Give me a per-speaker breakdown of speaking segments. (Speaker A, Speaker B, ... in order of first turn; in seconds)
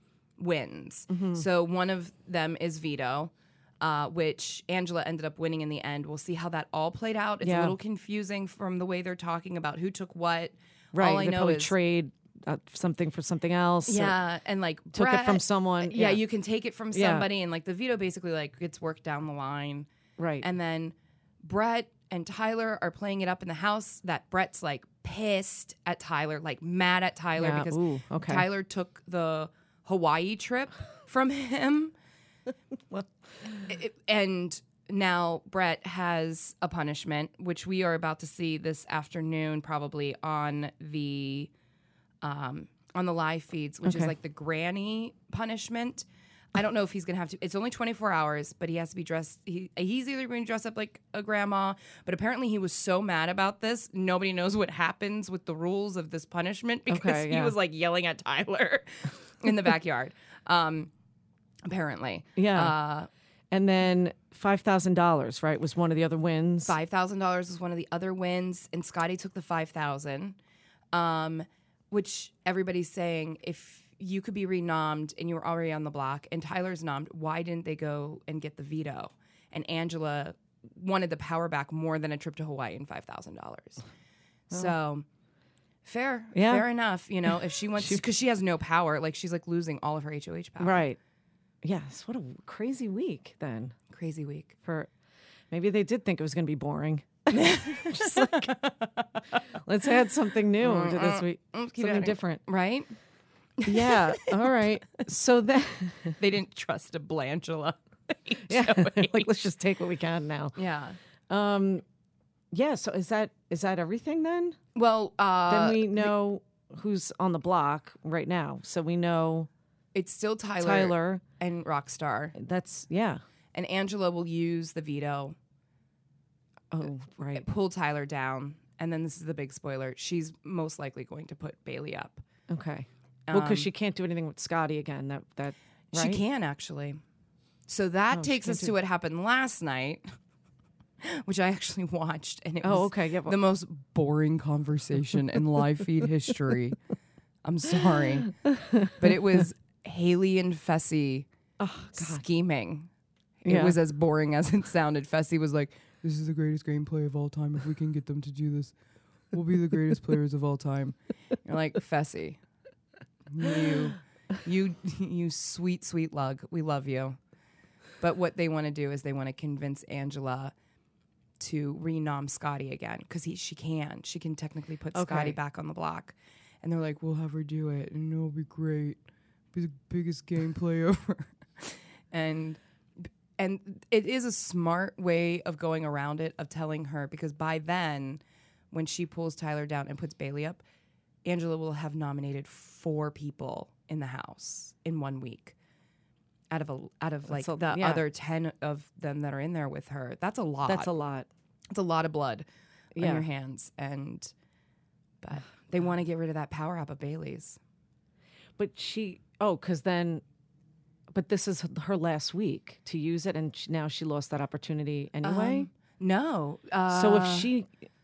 Speaker A: 0.4-11.7, 13.9-19.9, 20.4-31.9, 33.7-41.5, 42.2-60.9, 61.6-63.1, 66.7-70.4, 70.9-83.8, 84.5-85.0, 85.8-90.8, 93.9-94.5, 97.3-99.4, 100.6-102.9, 103.6-104.5, 106.2-109.3, 110.5-111.0, 114.7-116.1, 119.9-122.3, 123.5-125.4, 127.3-132.2, 133.3-133.7, 135.9-137.0, 137.7-140.0, 141.0-146.8, 147.4-148.4, 149.0-151.3, 151.9-152.9, 153.4-158.7, 159.3-162.4, 163.3-167.2, 168.0-170.5, 171.4-179.0, 179.5-190.6, 191.2-195.6, 196.5-200.9, 201.7-202.4, 203.0-204.3, 205.2-207.6, 215.2-217.5
Speaker B: 1.1-1.4, 7.4-7.7, 10.9-14.2, 14.9-16.2, 16.9-17.3, 20.2-20.4, 27.4-28.4, 43.8-44.1, 56.9-57.5, 62.4-62.7, 63.5-66.7, 86.3-86.7, 90.6-91.0, 91.6-93.8, 94.6-94.9, 95.5-98.5, 99.6-102.4, 103.6-106.2, 108.5-110.5, 111.3-111.8, 112.5-114.6, 115.5-119.5, 120.6-121.2, 122.3-123.2, 126.7-127.5, 132.5-136.2, 138.1-138.7, 142.6-143.4, 148.4-148.9, 151.6-152.2, 153.4-153.8, 174.9-175.4, 197.3-198.0, 200.7-201.3, 202.9-203.2, 208.6-210.2, 211.1-215.7, 216.9-217.7